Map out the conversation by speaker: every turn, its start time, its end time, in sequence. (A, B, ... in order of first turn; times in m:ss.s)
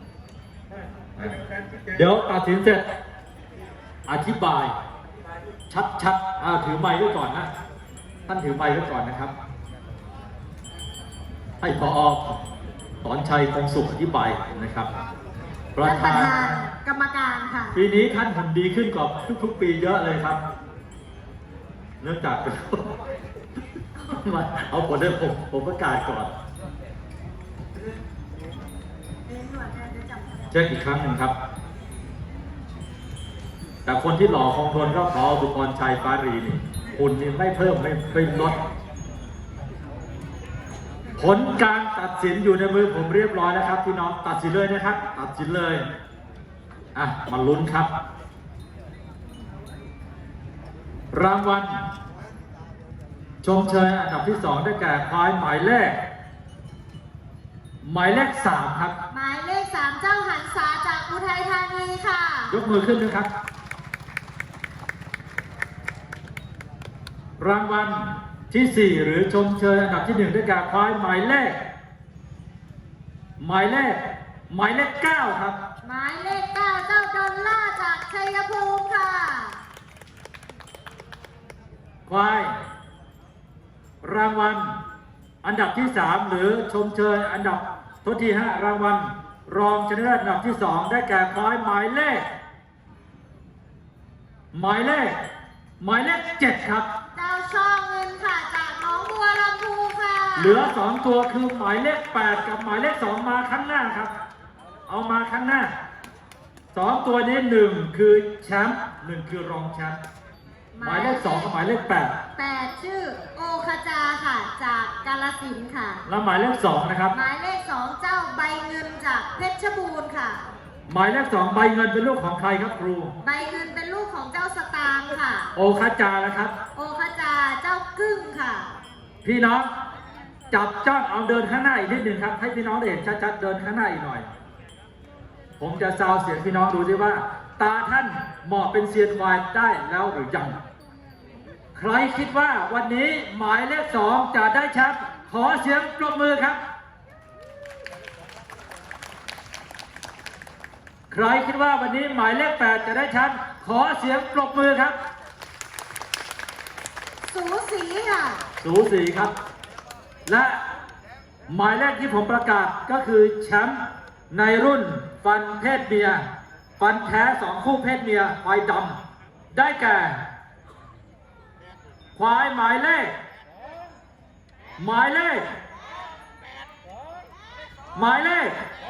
0:01.9-0:02.8 A
0:04.1-0:04.7 A
0:05.7-0:07.5 A
0:08.3-0:09.3 A
0:11.6-0:12.4 A
0:13.0-0:14.9 A
0:15.7-0:16.6 A
0:15.8-0:17.8 B
0:17.7-0:20.4 A
0:22.0-0:22.9 A
0:24.0-0:26.3 A
0:29.4-0:30.1 B
0:30.5-0:31.3 A
0:33.8-0:38.6 A
0:41.2-0:45.8 A
0:46.9-0:47.9 A
0:51.1-0:51.8 A
0:53.4-0:56.0 A
0:57.8-0:59.0 A
0:59.1-1:02.6 B
1:02.5-1:03.3 A
1:07.4-1:11.6 A
1:13.4-1:14.0 A
1:14.5-1:15.6 A
1:15.8-1:19.6 B
1:22.1-1:22.5 A
1:24.0-1:24.8 A
1:25.4-1:32.2 A
1:34.5-1:35.2 A
1:35.8-1:36.9 A
1:37.1-1:40.7 B
1:40.4-1:44.1 A
1:44.9-1:45.7 A
1:46.7-1:50.0 A
1:50.7-1:51.5 B
1:50.8-1:52.2 A
1:52.4-1:56.0 B
1:56.1-1:57.1 A
1:57.1-2:00.4 B
2:00.9-2:03.1 A
2:03.2-2:05.5 B
2:05.5-2:06.5 A
2:06.7-2:08.7 B
2:09.2-2:09.7 A
2:10.5-2:14.3 A
2:15.6-2:20.6 A
2:21.7-2:26.6 A
2:31.1-2:35.0 A
2:37.3-2:38.4 B
2:38.6-2:39.3 A
2:40.2-2:40.6 A
2:41.5-2:46.2 A
2:46.8-2:49.0 A
2:49.5-2:50.2 A
2:52.1-2:53.1 A
2:54.8-2:55.4 A
2:57.9-2:58.5 A